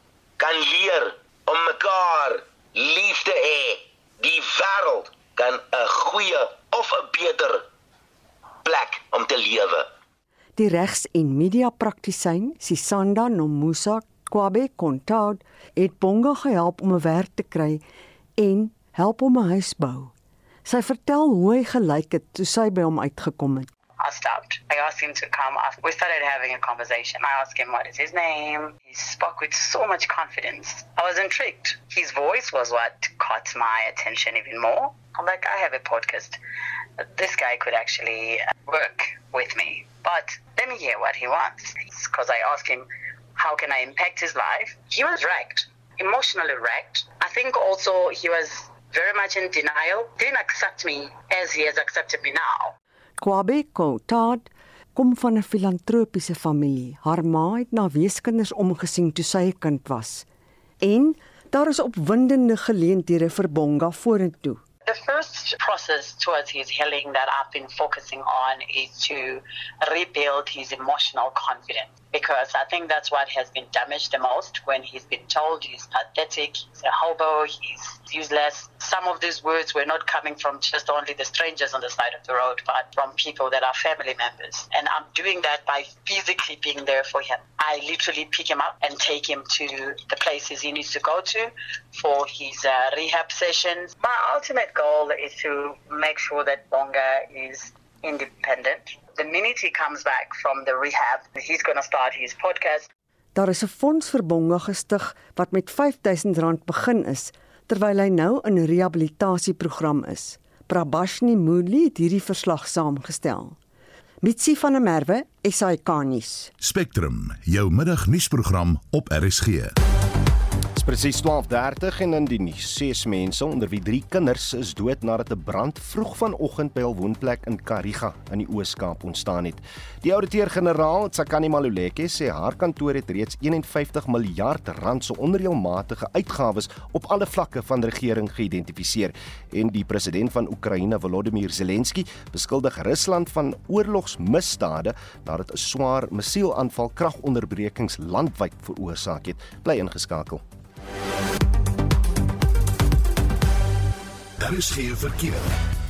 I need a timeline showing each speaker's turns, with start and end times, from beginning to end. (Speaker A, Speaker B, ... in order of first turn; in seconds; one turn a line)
Speaker A: 0.4-7.6
Speaker A: 8.6-9.9
Speaker B: 10.6-17.8
Speaker B: 18.4-20.1
Speaker B: 20.6-23.7
Speaker C: 24.0-36.4
Speaker C: 37.0-52.7
Speaker B: 53.2-60.3
Speaker B: 60.8-64.6
Speaker C: 64.9-102.9
Speaker B: 103.3-113.6
Speaker B: 114.2-116.5
Speaker D: 116.6-119.8
Speaker E: 120.8-150.4
Speaker D: 154.4-155.5